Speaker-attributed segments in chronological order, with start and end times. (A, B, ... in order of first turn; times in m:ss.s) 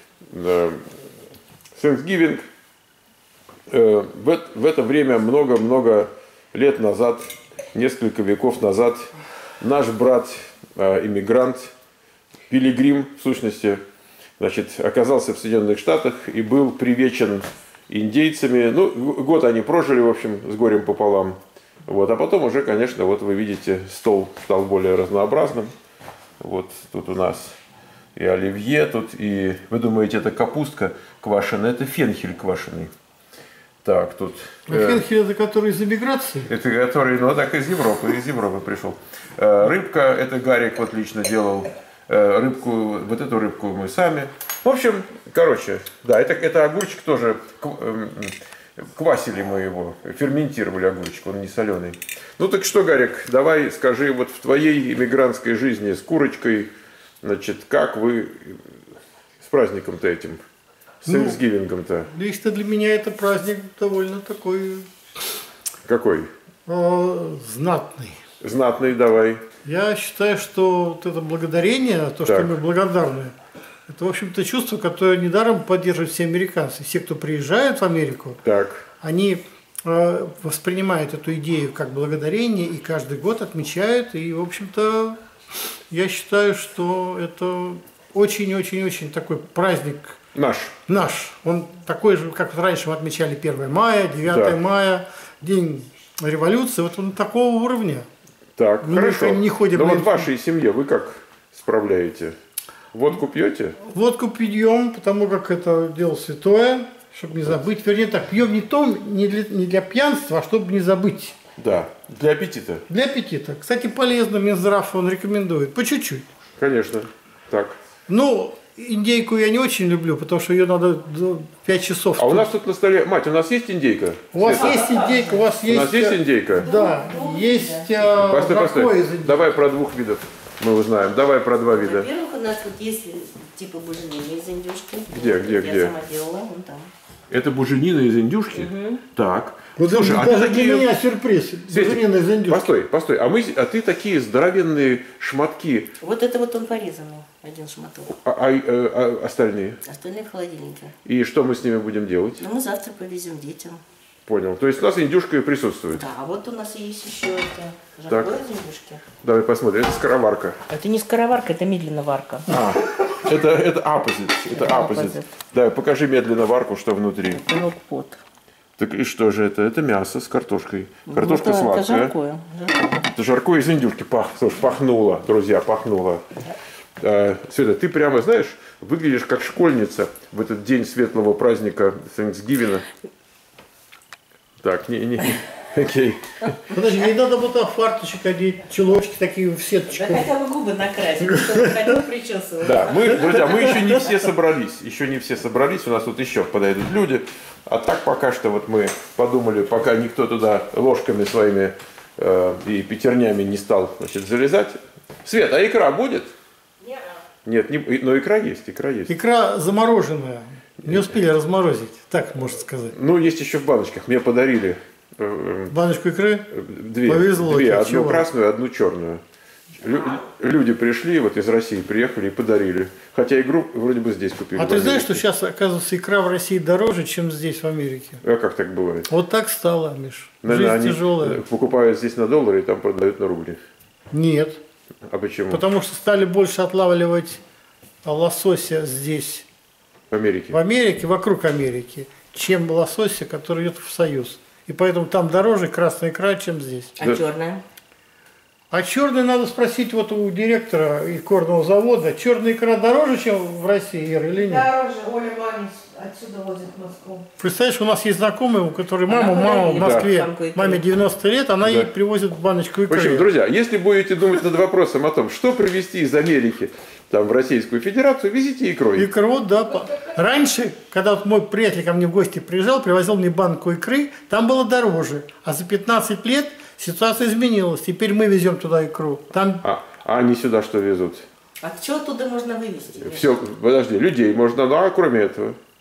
0:00.3-0:00.9 A
0:01.8-0:02.4 A
0:03.7-0:11.7 A
0:12.5-0:13.8 A
0:14.4-0:25.7 A
0:26.4-0:27.6 A
0:28.2-0:32.9 A
0:33.8-0:35.0 A
0:34.7-0:36.5 B
0:36.5-0:56.7 A
0:57.2-0:58.6 A
0:59.4-1:00.4 A
1:01.0-1:02.1 A
1:01.0-1:01.4 B
1:02.1-1:04.9 B
1:05.9-1:06.3 A
1:06.7-1:08.2 B
1:08.4-1:09.4 A
1:09.6-1:13.3 B
1:12.2-1:12.6 A
1:13.9-1:18.4 B
1:18.4-1:18.9 A
1:19.0-1:25.2 B
1:25.9-1:30.2 B
1:30.3-1:30.8 A
1:30.9-1:38.1 B
1:34.3-1:34.6 A
1:38.6-1:42.4 A
1:38.8-1:40.3 B
1:42.9-1:43.8 A
1:43.8-1:51.4 B
1:51.6-1:52.8 A
1:52.9-1:56.3 B
1:56.6-1:57.8 A
1:58.1-2:02.5 B
2:02.2-2:04.8 A
2:04.3-2:09.4 B
2:04.4-2:05.5 C
2:05.7-2:06.7 A
2:06.6-2:08.1 C
2:08.1-2:12.1 A
2:11.7-2:16.9 C
2:15.1-2:15.9 A
2:17.3-2:20.9 A
2:18.5-2:19.0 C
2:19.8-2:22.7 B
2:21.7-2:25.9 A
2:26.0-2:28.1 C
2:28.1-2:29.8 A
2:29.8-2:30.9 C
2:31.0-2:32.4 A
2:32.4-2:33.8 C
2:34.3-2:36.1 A
2:36.0-2:39.0 C
2:38.1-2:38.4 A
2:39.2-2:40.6 A
2:40.7-2:42.5 C
2:42.5-2:47.4 A
2:44.5-2:45.3 C
2:47.3-2:48.2 C
2:48.8-2:52.1 A
2:51.1-2:53.1 C
2:53.1-2:56.2 A
2:57.0-3:02.8 A
3:04.6-3:06.6 A
3:06.7-3:10.3 B
3:09.9-3:14.1 C
3:11.4-3:11.7 B
3:12.6-3:26.3 A
3:27.4-3:29.1 A
3:29.1-3:32.9 B
3:30.8-3:31.1 A
3:32.9-3:35.8 A
3:35.7-3:36.5 B
3:36.5-3:39.2 A
3:37.1-3:38.2 B
3:39.8-3:45.2 A
3:44.6-3:48.2 B
3:48.2-3:49.1 A
3:49.1-3:51.4 B
3:50.4-3:53.6 A
3:54.1-3:54.6 B
3:55.1-3:55.6 A
3:55.5-3:57.4 B
3:58.0-3:59.5 B
4:00.1-4:00.6 A
4:00.5-4:07.0 B
4:07.0-4:07.6 C
4:08.7-4:14.7 B
4:14.3-4:17.2 D
4:17.4-4:23.3 B
4:19.1-4:20.8 C
4:19.8-4:20.1 A
4:21.6-4:21.9 A
4:22.9-4:29.1 A
4:29.0-4:39.6 B
4:39.6-4:41.3 A
4:41.6-4:43.3 C
4:43.0-4:45.6 A